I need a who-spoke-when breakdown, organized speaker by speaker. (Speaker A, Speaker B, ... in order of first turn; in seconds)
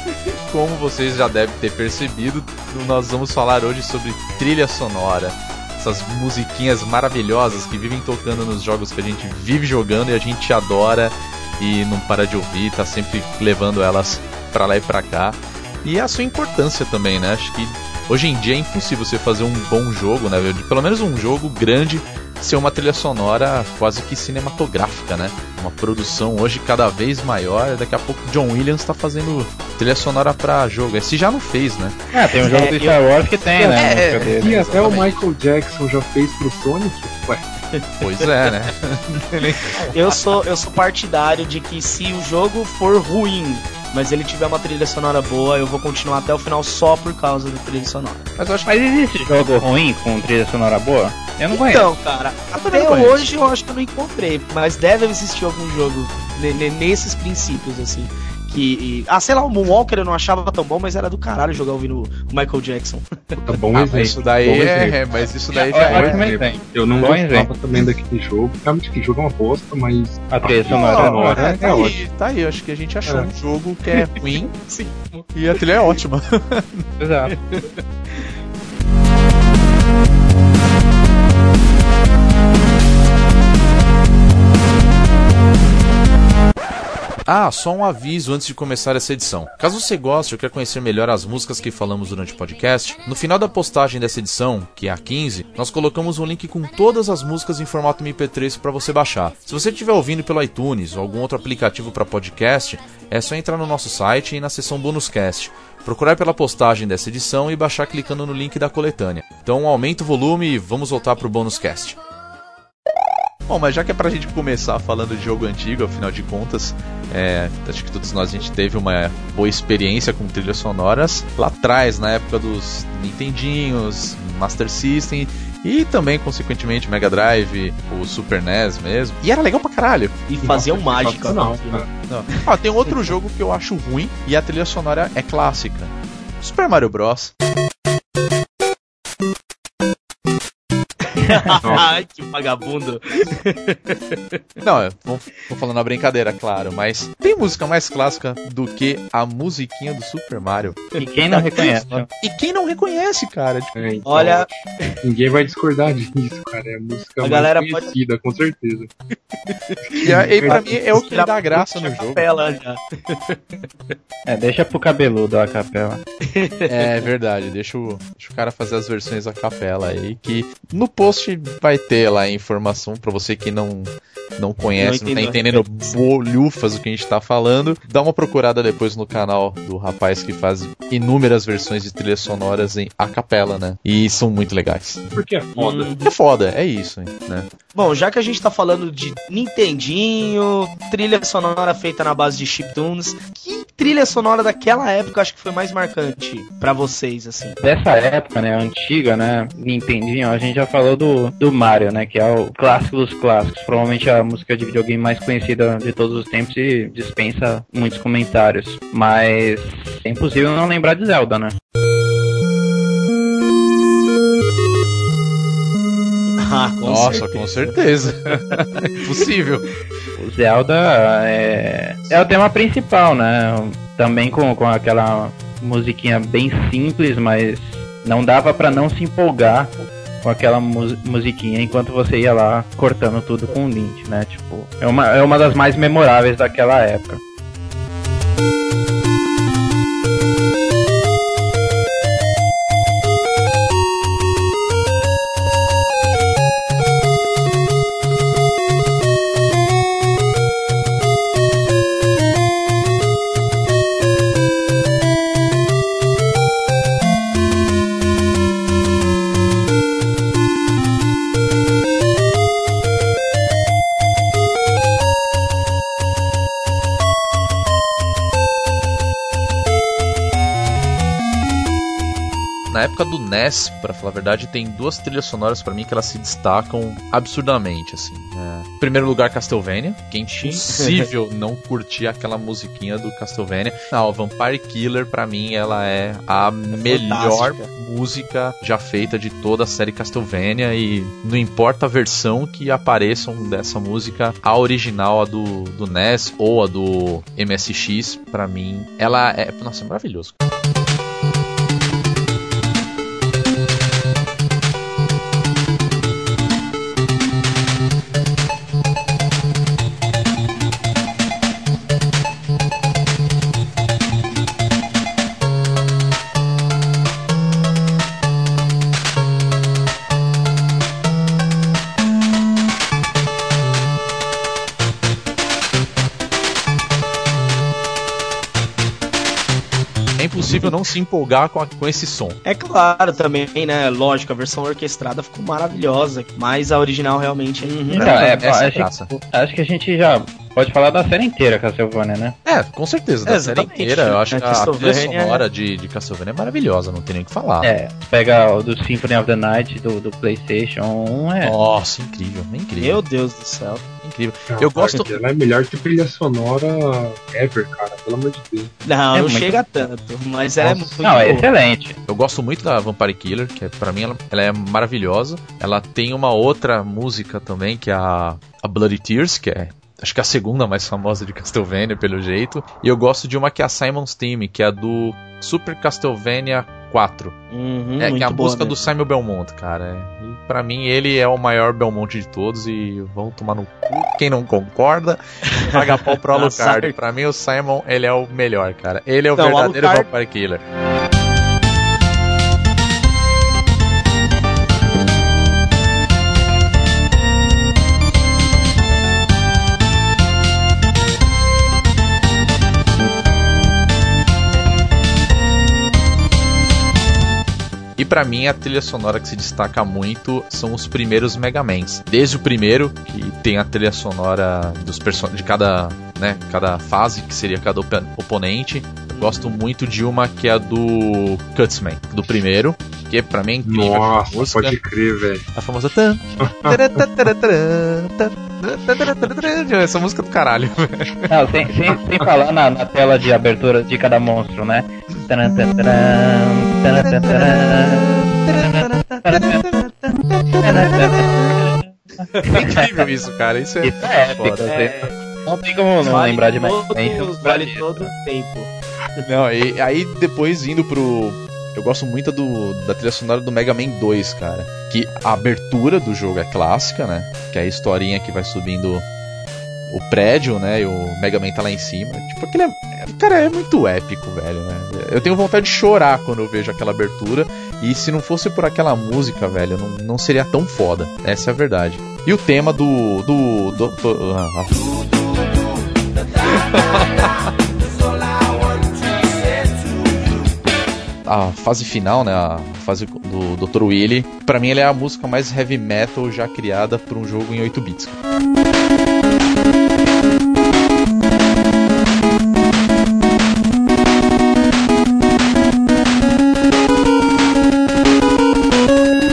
Speaker A: 0.5-32.0, 33.6-35.2, 38.0-40.2, 48.4-48.7, 52.6-53.3, 63.7-66.3, 71.2-74.5, 75.3-76.8, 87.3-112.0, 113.5-130.6, 132.1-137.3, 144.6-150.8, 151.3-153.8, 160.0-162.3, 166.7-185.0, 186.1-187.5, 216.9-219.7, 272.7-300.4, 330.2-332.4, 337.9-339.1, 342.4-347.7, 351.4-353.0, 354.0-355.2, 360.6-361.0, 362.1-377.4, 378.0-390.6, 408.0-424.8, 425.5-431.3, 437.1-437.5, 438.4-441.6, 442.5-444.7, 449.3-459.1, 459.9-475.1, 476.5-477.5, 481.3-488.1
Speaker B: 32.1-34.6, 48.7-51.9, 65.6-67.5, 70.3-71.2, 77.0-77.3, 141.2-141.6, 151.0-152.1, 164.3-166.0, 197.6-211.6, 220.2-237.2, 337.9-342.4, 347.6-351.6, 359.1-359.7, 361.0-362.0, 431.3-438.1, 438.6-439.6, 440.6-442.8, 443.8-448.1
Speaker C: 32.5-33.0, 37.8-38.3, 39.8-48.3, 51.5-63.4, 70.7-71.9, 74.0-75.7, 77.3-78.3, 130.3-131.9, 141.1-144.4, 154.1-155.0, 157.2-157.9, 159.5-163.9, 166.2-167.0, 174.8-175.6, 185.6-186.1, 187.8-197.6, 216.4-217.8, 218.3-218.6, 280.4-281.1, 286.7-287.7, 330.4-330.7, 332.4-338.4, 343.3-345.4, 352.8-353.9, 358.8-361.5, 377.5-378.9, 385.5-386.9, 389.4-390.1, 419.1-419.6, 444.6-445.2, 446.0-449.2
Speaker D: 34.4-37.5, 63.4-65.0, 65.8-72.0, 73.0-73.3, 130.4-131.9, 153.8-154.5, 155.0-158.9, 159.9-160.7, 185.1-185.9, 354.5-358.7, 423.6-425.4, 426.4-427.0